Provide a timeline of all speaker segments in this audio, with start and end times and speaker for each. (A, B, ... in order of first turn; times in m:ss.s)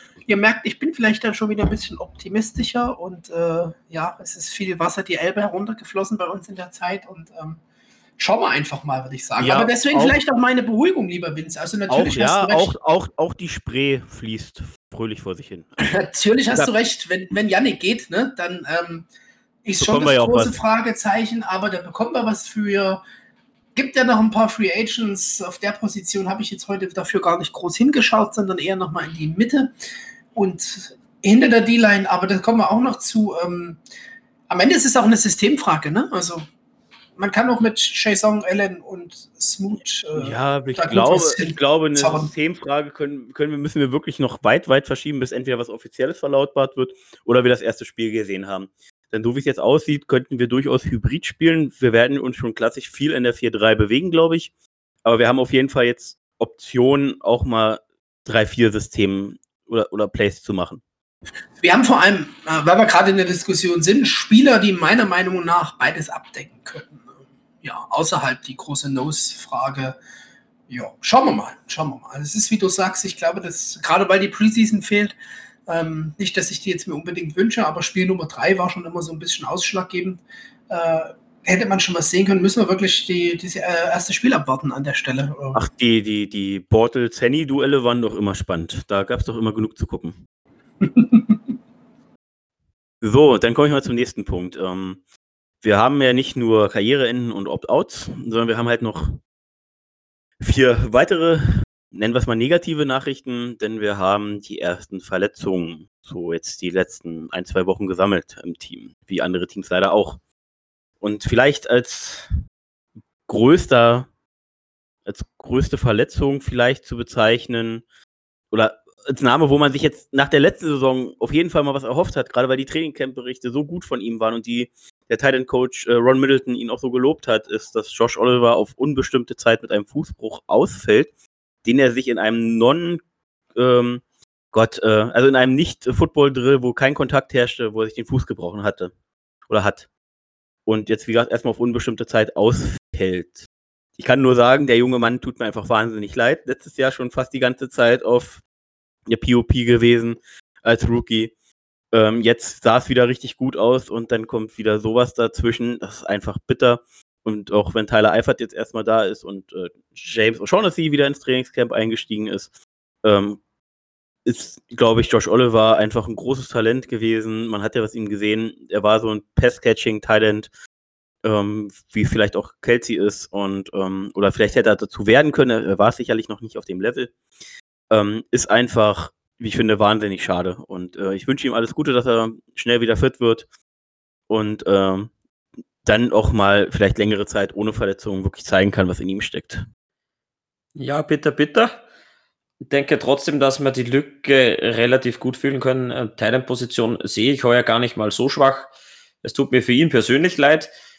0:00.3-0:07.6 A
0:08.2-0:12.7 A
0:09.4-0:10.2 B
0:11.9-0:15.8 B
0:15.8-0:19.1 A
0:19.6-0:23.0 A
0:19.8-0:20.6 B
0:23.7-0:29.7 A
0:30.3-0:33.8 A
0:34.5-0:36.4 A
0:37.2-0:42.3 A
0:40.1-0:54.5 B
0:55.0-1:00.8 B
1:01.6-1:07.0 A
1:07.6-1:10.0 A
1:10.7-1:15.1 A
1:15.7-1:25.6 A
1:25.5-1:30.2 B
1:30.8-1:31.4 A
1:33.0-1:35.0 B
1:35.6-1:39.2 B
1:40.4-1:50.2 B
1:51.0-1:52.3 B
1:53.3-1:54.1 B
1:55.0-1:57.8 B
1:58.5-2:11.1 B
2:11.6-2:13.0 B
2:13.5-2:18.9 B
2:19.5-2:19.9 B
2:20.6-2:28.4 B
2:29.1-2:31.3 B
2:31.9-2:42.5 B
2:43.0-2:43.4 B
2:44.2-2:50.5 B
2:51.2-2:57.1 B
2:57.9-3:03.4 B
3:04.3-3:05.1 B
3:05.8-3:09.6 B
3:10.7-3:11.8 C
3:12.6-3:18.7 C
3:19.2-3:20.7 C